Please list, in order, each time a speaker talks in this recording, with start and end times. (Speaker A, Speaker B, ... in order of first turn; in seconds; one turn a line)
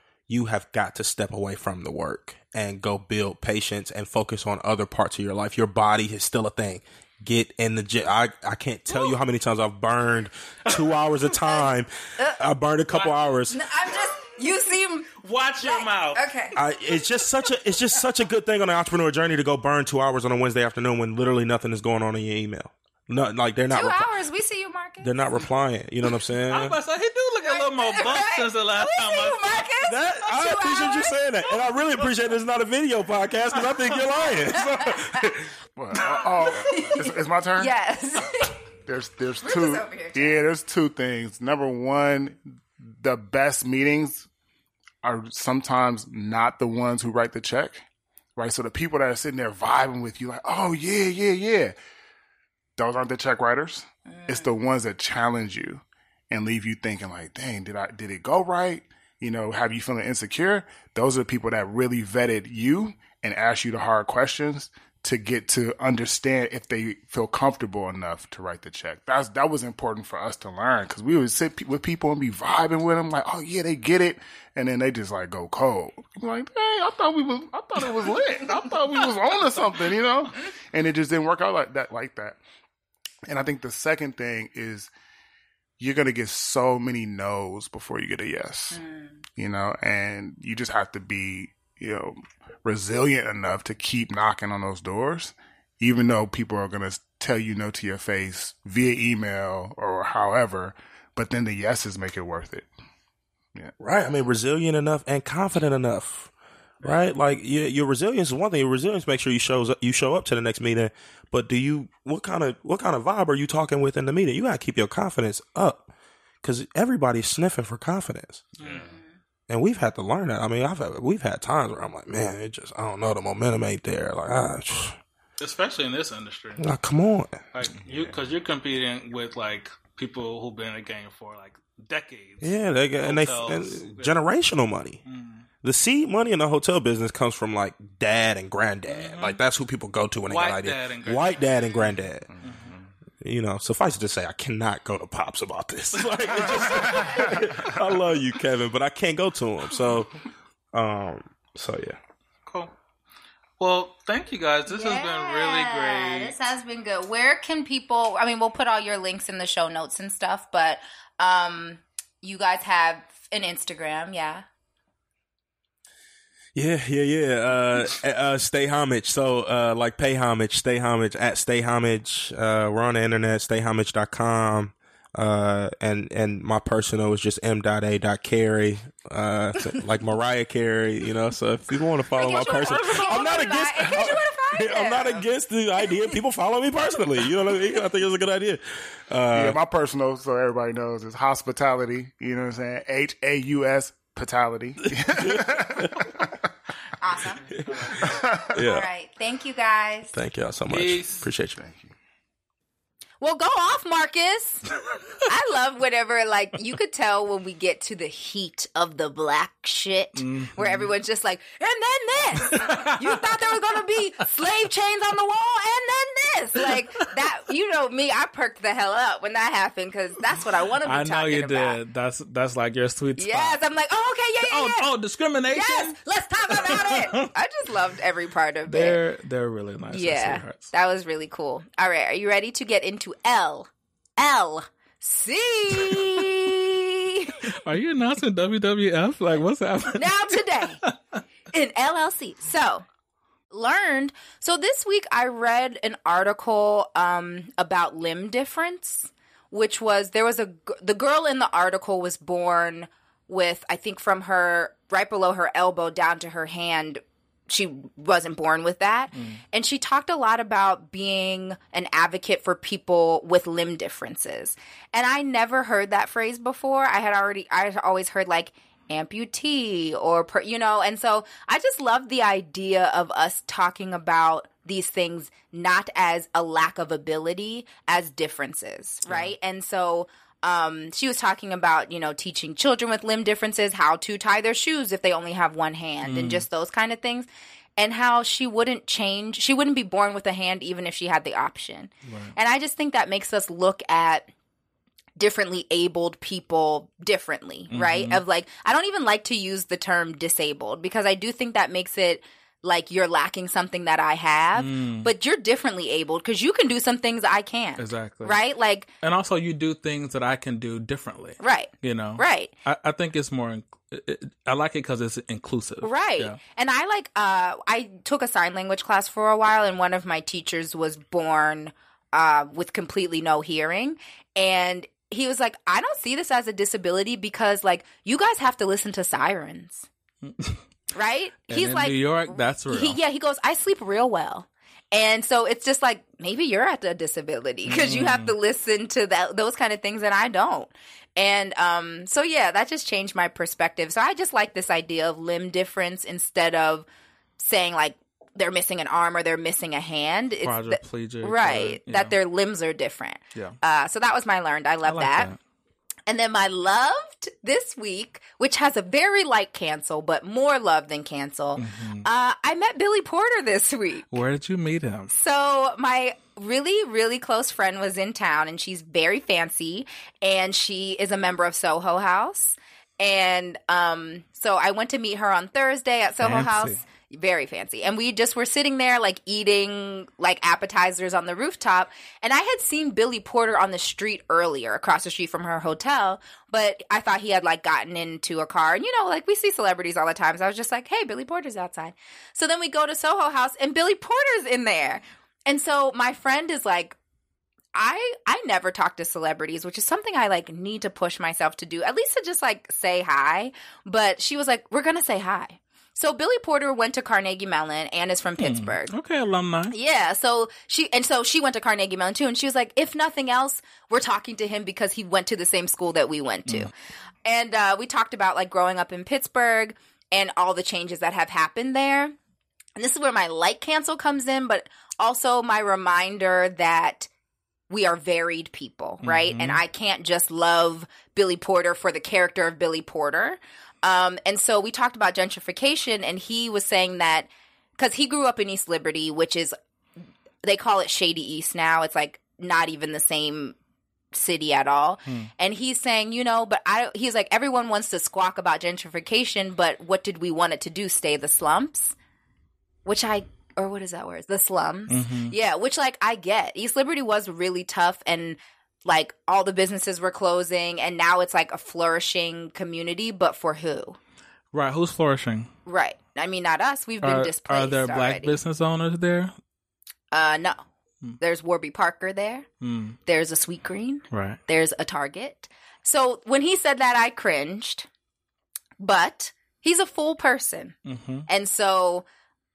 Speaker A: 0.3-13.6
Speaker B: 12.9-13.3
Speaker C: 13.5-16.5
Speaker B: 15.2-16.2
Speaker A: 16.5-24.1
Speaker C: 23.7-25.1
Speaker A: 25.0-26.8
Speaker B: 26.5-29.6
Speaker C: 27.4-31.2
Speaker A: 29.8-35.4
Speaker C: 34.4-35.2
Speaker D: 35.8-37.7
Speaker C: 36.0-38.5
Speaker D: 38.9-44.3
Speaker C: 39.4-40.4
Speaker D: 45.0-47.8
Speaker D: 48.4-51.8
Speaker D: 52.8-82.4
Speaker C: 54.1-54.5
Speaker D: 83.2-84.9
Speaker D: 85.8-88.8
Speaker C: 88.7-89.2
Speaker D: 89.4-102.7
Speaker A: 103.8-106.3
Speaker A: 106.8-115.9
Speaker A: 116.4-118.5
Speaker B: 118.6-118.9
Speaker D: 118.6-118.9
Speaker A: 119.5-125.0
Speaker B: 125.4-126.7
Speaker A: 126.6-127.4
Speaker B: 127.5-134.1
Speaker D: 127.8-128.1
Speaker A: 132.4-135.0
Speaker B: 135.1-135.4
Speaker A: 135.6-142.3
Speaker B: 138.9-139.4
Speaker B: 140.3-141.4
Speaker D: 142.3-142.9
Speaker B: 142.4-142.7
Speaker A: 143.2-150.1
Speaker B: 145.9-147.0
Speaker D: 146.9-147.7
Speaker A: 150.7-152.0
Speaker B: 152.5-152.7
Speaker B: 153.6-156.4
Speaker C: 154.7-164.4
Speaker A: 166.5-189.6
Speaker C: 182.1-185.2
Speaker D: 189.3-195.9
Speaker A: 195.2-196.1
Speaker C: 197.0-197.4
Speaker D: 198.0-198.6
Speaker A: 198.5-198.9
Speaker C: 198.6-200.1
Speaker A: 200.1-201.6
Speaker B: 200.7-201.2
Speaker D: 201.6-201.9
Speaker C: 203.2-204.7
Speaker C: 205.2-221.8
Speaker B: 210.2-210.9
Speaker B: 212.5-213.5
Speaker B: 220.8-223.6
Speaker C: 223.2-224.9
Speaker B: 224.4-227.3
Speaker C: 225.5-229.0
Speaker B: 228.7-230.7
Speaker C: 229.9-237.4
Speaker B: 237.5-240.3
Speaker C: 239.9-240.8
Speaker B: 240.8-241.2
Speaker C: 241.5-242.8
Speaker C: 243.5-294.3
Speaker B: 259.1-259.4
Speaker B: 279.1-279.3
Speaker B: 286.0-286.4
Speaker B: 292.0-292.3
Speaker C: 295.2-308.9
Speaker B: 297.7-298.2
Speaker B: 304.6-305.1
Speaker B: 307.8-308.4
Speaker B: 309.0-316.4
Speaker C: 311.4-312.5
Speaker C: 315.8-329.9
Speaker B: 330.2-330.6
Speaker C: 330.9-346.9
Speaker B: 331.5-333.0
Speaker B: 337.7-338.3
Speaker C: 347.4-355.3
Speaker B: 350.4-352.1
Speaker B: 354.8-355.4
Speaker C: 356.1-364.2
Speaker B: 361.6-362.1
Speaker B: 364.1-365.1
Speaker C: 365.1-396.9
Speaker B: 376.2-376.8
Speaker C: 397.7-408.9
Speaker B: 408.4-409.7
Speaker C: 409.7-416.7
Speaker C: 417.2-422.1
Speaker C: 422.8-427.1
Speaker C: 427.7-439.5
Speaker B: 429.0-429.6
Speaker C: 440.4-443.5
Speaker C: 444.1-451.9
Speaker C: 452.8-464.0
Speaker B: 454.9-455.3
Speaker B: 464.5-465.5
Speaker C: 465.6-468.4
Speaker B: 467.0-469.3
Speaker C: 470.1-470.6
Speaker C: 471.2-472.4
Speaker B: 472.6-473.0
Speaker C: 473.1-477.9
Speaker B: 474.1-474.4
Speaker C: 478.8-480.8
Speaker B: 480.8-481.3
Speaker C: 481.3-482.0